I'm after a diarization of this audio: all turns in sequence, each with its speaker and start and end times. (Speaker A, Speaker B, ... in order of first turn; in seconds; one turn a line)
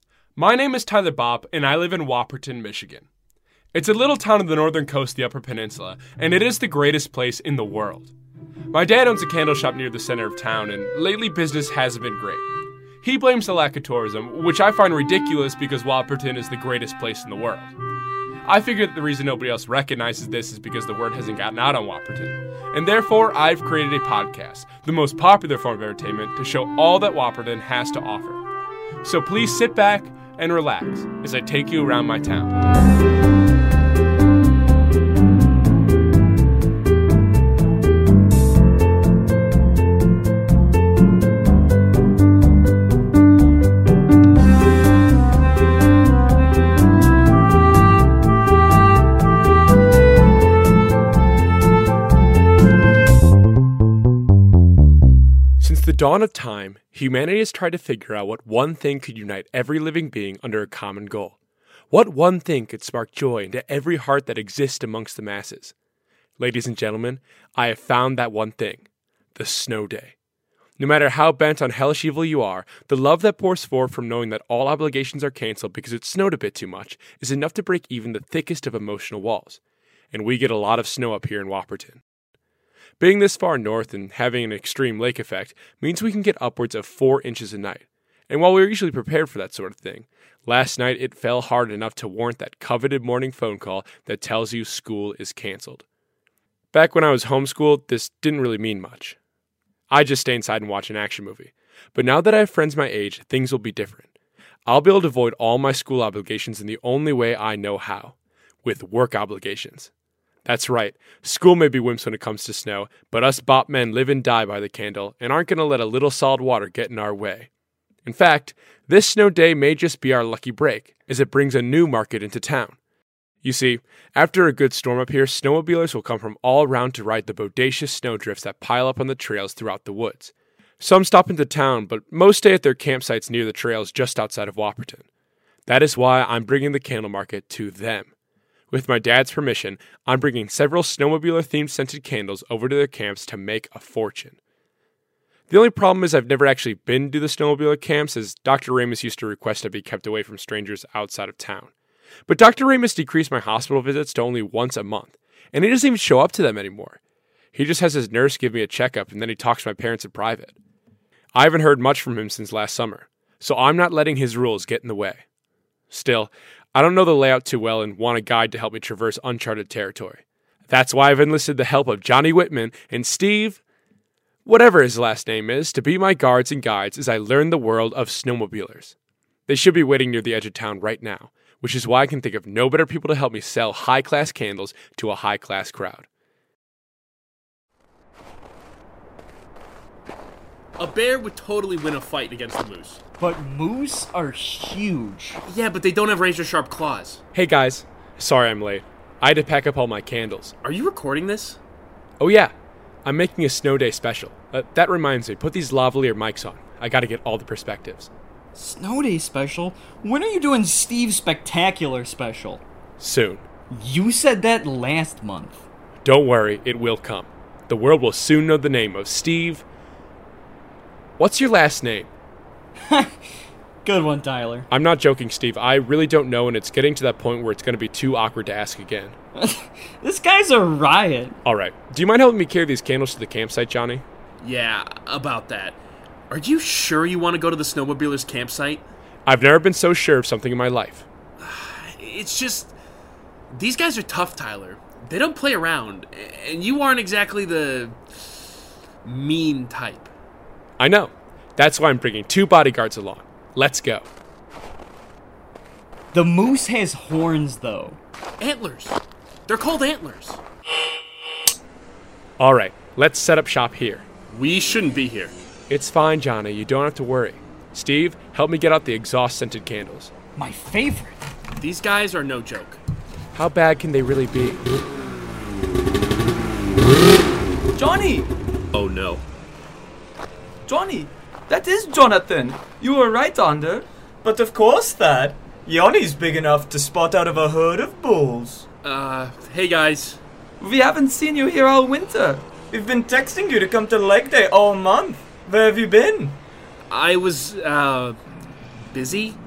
Speaker A: 0.4-3.1
Speaker A: 3.7-8.1
Speaker A: 8.7-12.5
Speaker A: 13.0-17.7
Speaker A: 18.4-28.4
Speaker A: 29.0-32.5
Speaker A: 55.6-61.4
Speaker A: 61.9-65.7
Speaker A: 66.4-70.1
Speaker A: 70.8-79.6
Speaker A: 80.1-82.0
Speaker A: 83.0-95.8
Speaker A: 96.7-99.2
Speaker A: 99.9-104.1
Speaker A: 104.7-109.9
Speaker A: 110.5-117.5
Speaker A: 118.0-122.8
Speaker A: 123.4-135.1
Speaker A: 135.7-138.1
Speaker A: 138.7-144.4
Speaker A: 145.5-151.7
Speaker A: 152.3-157.0
Speaker A: 157.5-160.6
Speaker A: 161.3-165.2
Speaker A: 165.9-173.6
Speaker A: 174.5-178.9
Speaker A: 179.5-186.1
Speaker B: 190.8-193.0
Speaker C: 193.2-195.4
Speaker B: 195.4-197.2
Speaker A: 197.3-200.5
Speaker B: 200.6-201.6
Speaker A: 202.2-202.5
Speaker A: 203.1-208.1
Speaker C: 208.6-212.6
Speaker A: 213.0-213.4
Speaker C: 213.7-215.6
Speaker A: 216.1-219.7
Speaker A: 221.2-222.1
Speaker C: 222.9-223.2
Speaker C: 223.8-224.7
Speaker A: 224.7-229.2
Speaker C: 229.4-231.4
Speaker A: 231.4-234.1
Speaker B: 234.4-235.8
Speaker B: 236.3-238.8
Speaker A: 239.3-241.1
Speaker B: 241.4-242.7
Speaker B: 243.5-248.5
Speaker B: 249.0-250.1
Speaker A: 250.8-254.1
Speaker C: 256.1-258.0
Speaker B: 258.4-260.4
Speaker A: 262.4-264.1
Speaker B: 264.3-265.4
Speaker A: 265.7-270.1
Speaker C: 270.4-271.2
Speaker B: 271.6-272.8
Speaker A: 273.4-274.7
Speaker D: 277.8-278.3
Speaker B: 278.7-279.2
Speaker D: 280.7-283.9
Speaker E: 284.2-288.6
Speaker B: 288.8-290.2
Speaker D: 290.6-292.6
Speaker E: 292.6-296.4
Speaker B: 296.9-298.2
Speaker B: 298.9-299.4